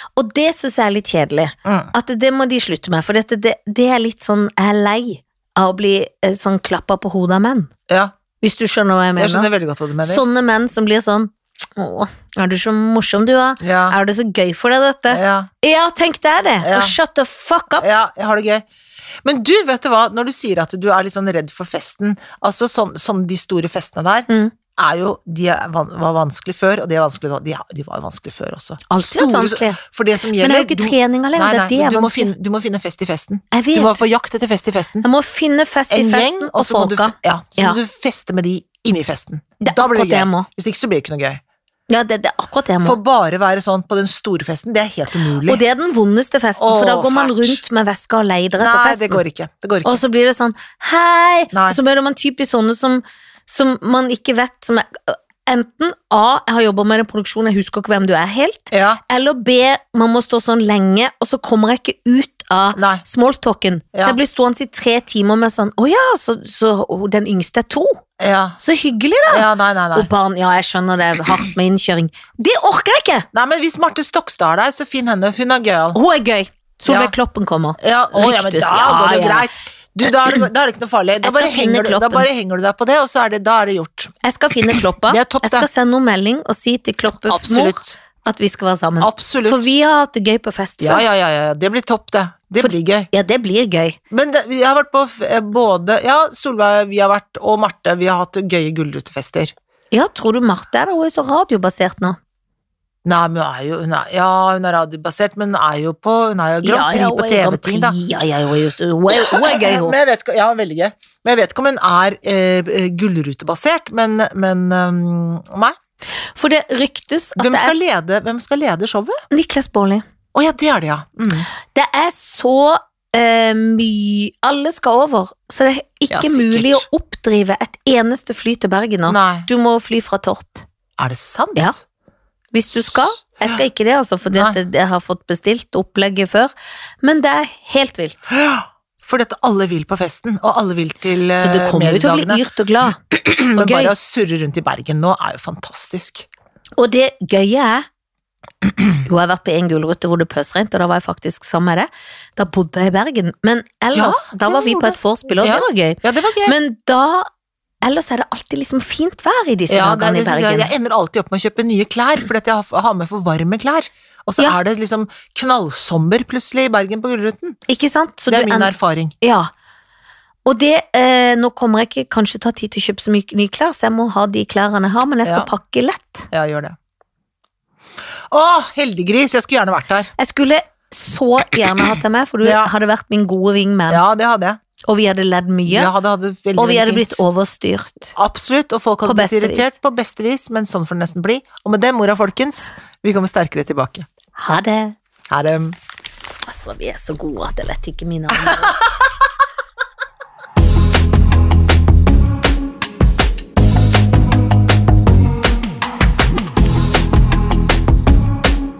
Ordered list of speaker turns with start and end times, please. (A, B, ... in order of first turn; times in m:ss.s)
0:00.2-0:07.7 A
0:01.6-0:01.9 B
0:07.9-0:08.1 B
0:08.4-0:09.5 A
0:09.2-0:10.2 B
0:10.0-0:17.8 A
0:13.6-0:14.0 B
0:15.1-0:15.5 B
0:16.6-0:16.9 B
0:17.8-0:18.6 B
0:19.2-0:35.0 B
0:24.3-0:24.5 A
0:28.9-0:29.8 A
0:30.4-0:32.3 A
0:33.5-0:34.0 A
0:35.0-0:37.8 A
0:35.9-0:41.4 B
0:39.6-0:40.5 A
0:41.9-0:43.0 A
0:42.8-0:45.6 B
0:45.4-0:49.2 A
0:46.6-0:47.6 B
0:48.6-0:50.0 B
0:49.8-1:08.0 A
0:51.5-0:51.8 B
0:58.7-0:59.0 B
1:02.7-1:03.0 B
1:03.9-1:04.2 B
1:08.2-1:08.6 B
1:08.6-1:13.3 A
1:09.3-1:10.1 B
1:13.3-1:16.0 B
1:15.9-1:19.5 A
1:16.8-1:17.1 B
1:17.8-1:24.1 B
1:21.2-1:22.3 A
1:24.2-1:31.0 A
1:25.0-1:25.7 B
1:27.2-1:28.0 B
1:29.0-1:29.6 B
1:30.8-1:33.1 B
1:32.6-1:34.0 A
1:34.1-1:39.5 B
1:39.9-1:42.2 A
1:43.0-1:48.0 B
1:46.6-1:50.0 A
1:49.1-1:55.8 B
1:56.3-1:57.8 A
1:57.4-1:59.2 B
1:59.3-2:00.0 A
2:00.3-2:01.5 B
2:01.7-2:10.6 A
2:06.1-2:06.9 B
2:09.1-2:09.5 B
2:11.0-2:11.8 B
2:12.5-2:16.5 A
2:12.7-2:13.6 B
2:17.0-2:18.3 A
2:18.3-2:22.4 B
2:21.4-2:23.9 A
2:23.1-2:26.3 B
2:26.8-2:27.8 A
2:29.0-2:37.3 A
2:33.9-2:36.6 B
2:37.8-2:40.7 A
2:39.7-2:47.6 B
2:47.7-2:49.5 A
2:48.3-2:49.1 B
2:50.4-2:56.3 A
2:55.2-2:55.5 B
2:56.3-2:56.8 B
2:58.3-3:00.1 B
3:00.2-3:04.0 A
3:01.7-3:02.7 B
3:03.9-3:04.6 B
3:04.9-3:05.9 A
3:05.6-3:07.2 B
3:06.6-3:08.1 A
3:08.2-3:14.1 B
3:09.0-3:09.7 A
3:14.4-3:15.0 A
3:15.3-3:15.8 B
3:16.4-3:18.8 A
3:18.4-3:18.8 B